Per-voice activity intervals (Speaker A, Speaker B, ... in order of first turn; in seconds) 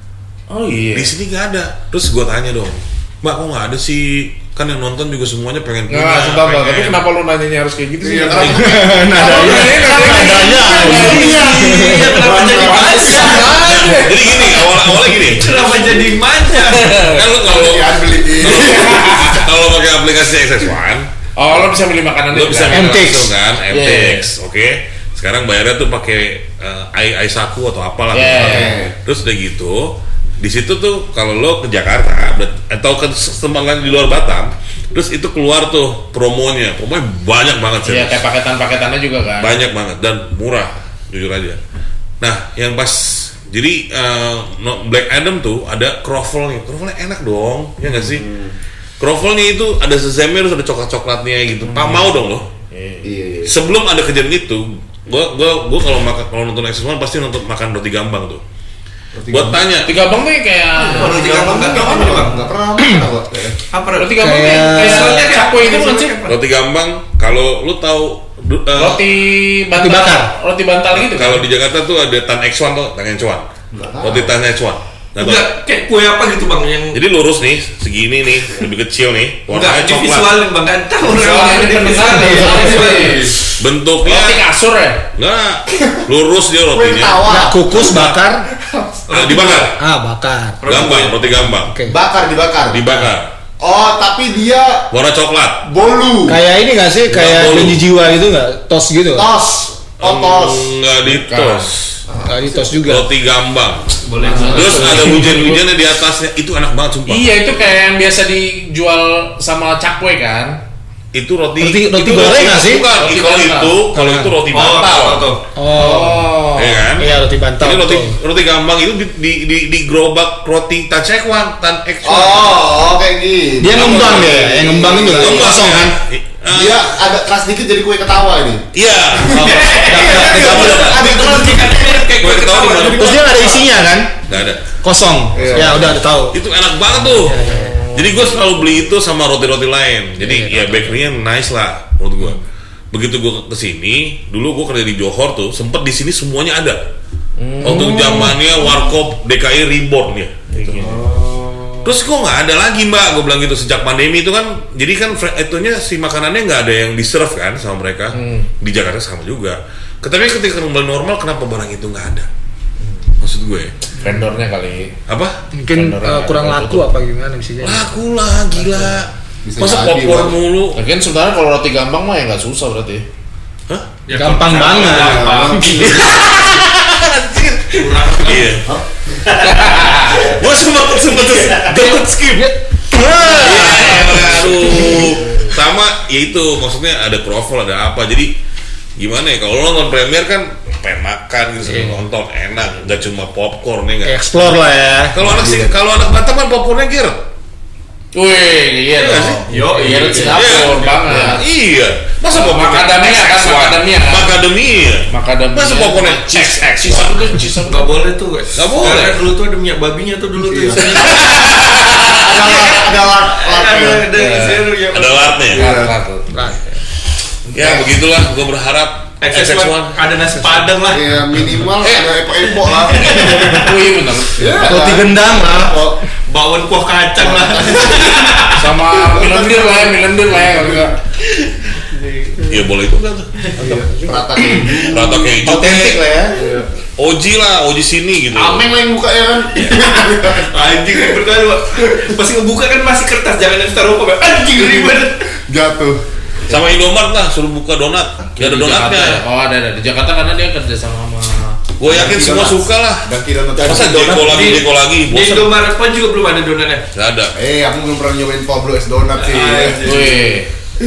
Speaker A: 0.5-1.1, 5.9-11.6, 12.4-14.9, 16.6-17.3, 18.5-19.5, 21.4-23.1, 23.7-24.3, 28.1-28.8, 37.8-39.5, 47.8-48.1, 51.6-53.1, 59.8-62.2, 64.0-66.2, 68.7-71.4, 81.0-83.3, 84.0-85.0, 101.0-101.7, 104.2-105.6, 107.1-110.6, 112.9-113.8, 115.7-116.7, 137.4-138.3, 147.4-148.2, 150.5-151.1, 158.1-158.5, 164.0-164.9, 165.7-166.8, 170.7-173.1, 179.4-180.3, 198.1-201.4, 202.3-204.4, 205.1-208.0, 214.1-214.6, 215.5-216.4, 221.8-222.1, 223.2-224.6, 228.5-230.9, 248.4-251.6, 259.8-260.5
Speaker B: 0.9-7.0, 13.5-15.6, 17.0-21.1, 22.3-38.2, 39.4-41.6, 42.2-48.2, 49.0-52.4, 53.5-58.4, 59.3-59.9, 66.2-69.0, 70.9-73.5, 74.0-75.5, 76.9-80.4, 83.5-84.4, 85.1-87.2, 89.1-89.8, 90.6-91.7, 92.7-93.3, 94.9-95.6, 97.1-97.8, 100.0-102.0, 102.8-107.3, 111.1-115.3, 116.5-122.6, 123.8-124.4, 125.1-126.9, 128.7-130.8, 132.2-133.2, 134.3-134.7, 135.5-142.4, 142.9-146.8, 147.6-150.4, 151.8-162.3, 163.2-163.7, 165.1-165.3, 167.6-170.8, 175.8-178.7, 180.1-182.1, 183.2-188.3, 189.0-194.2, 195.1-197.2, 198.9-199.4, 200.3-207.7, 208.5-209.2, 210.9-212.4, 214.9-215.7, 217.5-220.0, 232.4-233.3, 234.9-236.1, 237.0-238.7, 246.5-249.2, 251.8-255.5, 256.9-257.3
Speaker C: 8.0-13.6, 15.6-16.1, 17.3-19.4, 28.4-28.9, 48.0-48.5, 53.0-53.5, 59.1-59.7, 60.8-63.6, 73.7-74.3, 86.7-88.1, 91.8-92.9, 93.6-94.9, 95.6-96.4, 99.2-100.7, 102.1-102.8, 122.0-125.8, 126.5-132.0, 135.3-136.0, 150.8-151.9, 169.4-170.4, 174.8-176.2, 184.6-185.5, 195.2-195.8, 199.5-200.4, 210.4-211.2, 212.2-214.1, 215.5-215.9, 217.6-217.8, 220.9-223.8, 224.4-226.0, 227.2-230.9, 233.6-236.7, 238.3-241.1, 244.5-244.9, 245.5-246.7, 251.8-254.6, 257.4-260.2
Speaker D: 8.4-12.3, 22.7-23.3, 62.8-63.0, 64.2-65.3, 69.7-70.3, 82.1-82.9, 87.2-88.5, 89.8-90.9, 91.5-92.0, 96.2-99.3, 102.2-103.1, 111.6-112.9, 113.9-114.4, 115.5-118.2, 123.6-126.0, 129.3-131.3, 132.8-134.2, 134.8-136.4, 137.0-137.8, 140.2-141.0, 147.6-148.4, 165.5-167.9, 174.1-175.7, 181.4-184.9, 191.6-192.0, 194.0-195.2, 216.3-216.8, 224.6-225.9, 233.6-234.8, 235.4-236.4, 253.6-254.6
Speaker E: 10.9-14.1, 15.3-17.0, 60.9-62.5, 63.7-66.4, 75.2-77.0, 79.5-83.4, 89.1-89.8, 90.6-91.2, 104.0-105.2, 114.5-115.4, 129.3-133.7, 174.1-176.1, 177.7-178.6, 179.7-180.3, 199.5-201.3, 207.6-211.7, 212.3-215.6, 219.2-221.5, 222.4-223.7, 226.3-228.6, 231.2-232.4, 239.6-245.2, 254.2-256.9, 259.1-260.3